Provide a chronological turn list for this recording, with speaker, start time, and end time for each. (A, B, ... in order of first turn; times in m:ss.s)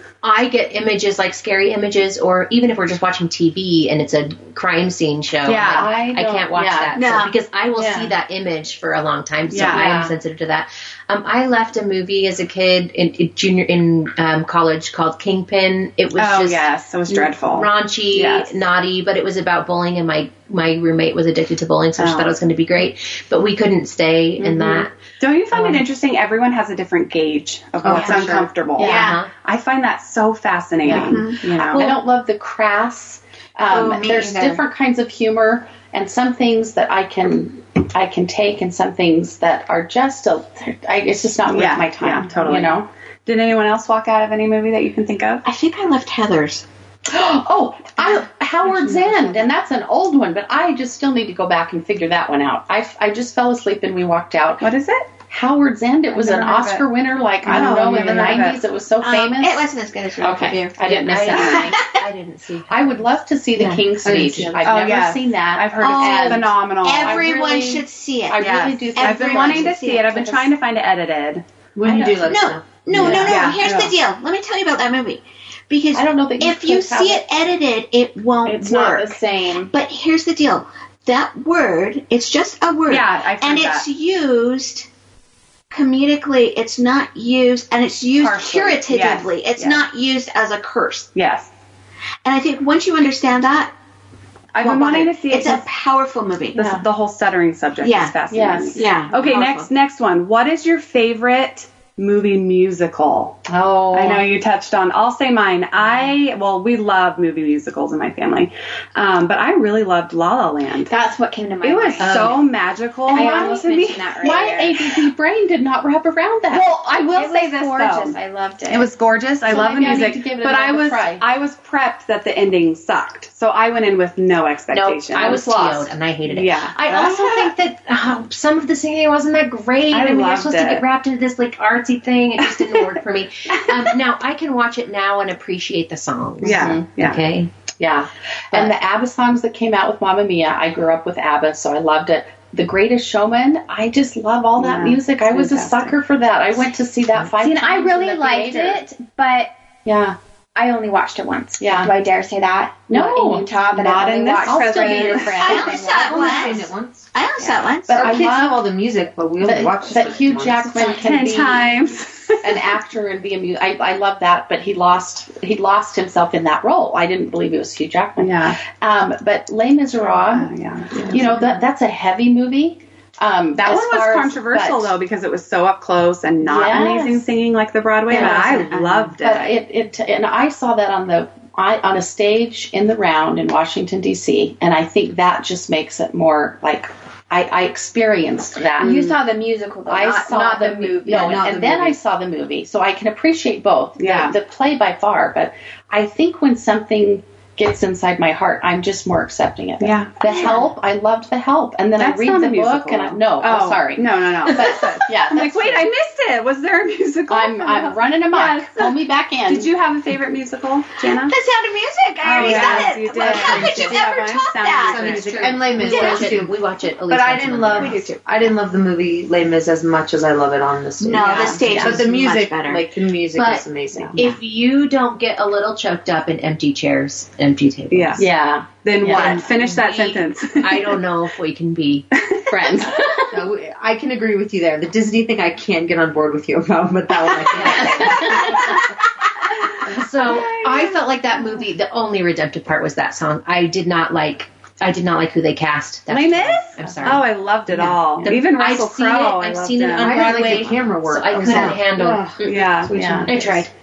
0:00.2-0:24.9 A
0:05.5-0:05.9 B
0:05.5-0:07.0 C
0:06.9-0:07.4 D
0:07.8-0:08.1 C
0:09.5-0:10.0 B
0:09.5-0:10.1 C
0:16.2-0:18.6 B
0:22.0-0:22.3 B
0:24.4-0:32.0 B
0:25.5-0:25.8 A
0:27.8-0:28.5 E
0:27.9-0:29.2 C
0:28.8-0:29.2 D
0:28.8-0:29.3 A
0:30.8-0:42.9 C
0:30.9-0:31.4 D
0:33.7-0:34.6 D
0:41.5-0:45.4 B
0:45.4-0:46.6 D
0:47.1-0:54.7 C
0:48.0-0:49.5 B
0:54.6-0:55.1 B
0:55.3-1:01.8 C
0:56.1-0:56.9 B
0:57.4-0:58.6 B
0:57.5-0:58.4 D
0:59.0-1:02.0 D
1:00.9-1:04.4 A
1:02.7-1:10.5 C
1:04.0-1:04.5 E
1:04.6-1:07.4 B
1:05.8-1:10.2 D
1:08.4-1:11.4 B
1:11.8-1:13.4 E
1:11.8-1:12.4 C
1:12.2-1:24.9 D
1:12.9-1:13.6 C
1:12.9-1:14.0 B
1:15.9-1:17.3 C
1:18.4-1:19.7 C
1:22.9-1:23.9 B
1:25.7-1:31.1 D
1:28.2-1:29.8 B
1:31.1-1:31.5 B
1:32.2-1:33.7 D
1:34.5-1:35.6 B
1:34.6-1:36.7 D
1:36.6-1:43.4 B
1:36.6-1:36.8 C
1:37.8-1:38.2 D
1:38.3-1:38.9 C
1:38.8-1:39.7 D
1:43.5-1:44.3 C
1:43.9-1:50.9 B
1:50.9-1:52.4 F
1:51.6-1:54.5 B
1:52.0-1:52.4 C
1:52.0-1:52.4 A
1:53.1-1:56.7 C
1:53.1-1:54.9 F
1:56.5-1:58.2 B
1:56.5-1:58.9 F
1:58.7-2:05.4 B
1:59.5-2:01.2 C
2:04.7-2:17.5 A
2:05.1-2:05.9 C
2:06.3-2:07.5 B
2:09.9-2:10.8 B
2:12.4-2:12.9 B
2:16.4-2:16.9 C
2:16.4-2:17.2 B
2:17.8-2:28.8 C
2:24.6-2:26.0 B
2:27.4-2:29.5 F
2:29.9-2:30.2 C
2:30.6-2:36.6 F
2:31.6-2:31.9 C
2:32.9-2:33.5 C
2:33.7-2:35.6 B
2:34.4-2:36.5 C
2:35.3-2:38.1 D
2:36.0-2:37.1 E
2:37.5-2:38.7 C
2:37.9-2:40.8 E
2:39.4-2:41.8 C
2:40.8-2:42.8 B
2:42.4-2:54.9 C
2:48.2-2:48.6 B
2:50.3-2:51.6 B
2:53.6-2:59.6 B
2:56.4-2:57.3 C
2:58.1-3:09.1 C
2:58.1-2:59.1 D
3:08.8-3:11.4 F
3:09.9-3:25.8 C
3:11.0-3:12.0 E
3:14.0-3:14.3 B
3:19.8-3:20.6 B
3:20.3-3:20.6 F
3:22.0-3:31.4 B
3:27.3-3:29.7 C
3:31.1-3:36.4 D
3:32.2-3:35.7 B
3:32.4-3:34.1 E
3:34.8-3:36.6 E
3:35.2-3:38.0 A
3:37.1-3:44.2 E
3:37.7-3:38.2 D
3:41.0-3:42.9 D
3:41.2-3:42.1 C
3:41.2-3:41.6 B
3:43.4-3:48.3 A
3:47.9-3:48.3 B
3:48.2-3:49.4 C
3:48.8-3:51.0 B
3:49.1-3:52.8 A
3:49.1-3:49.4 E
3:52.2-3:52.4 B
3:52.5-3:53.3 C
3:53.3-3:58.6 E
3:57.4-3:58.7 A
3:58.1-3:58.4 C
3:59.8-4:12.7 A
4:00.2-4:01.0 B
4:06.1-4:10.7 B
4:06.8-4:07.2 C
4:10.0-4:13.3 E
4:12.4-4:13.2 B
4:12.9-4:13.6 C
4:13.3-4:13.7 A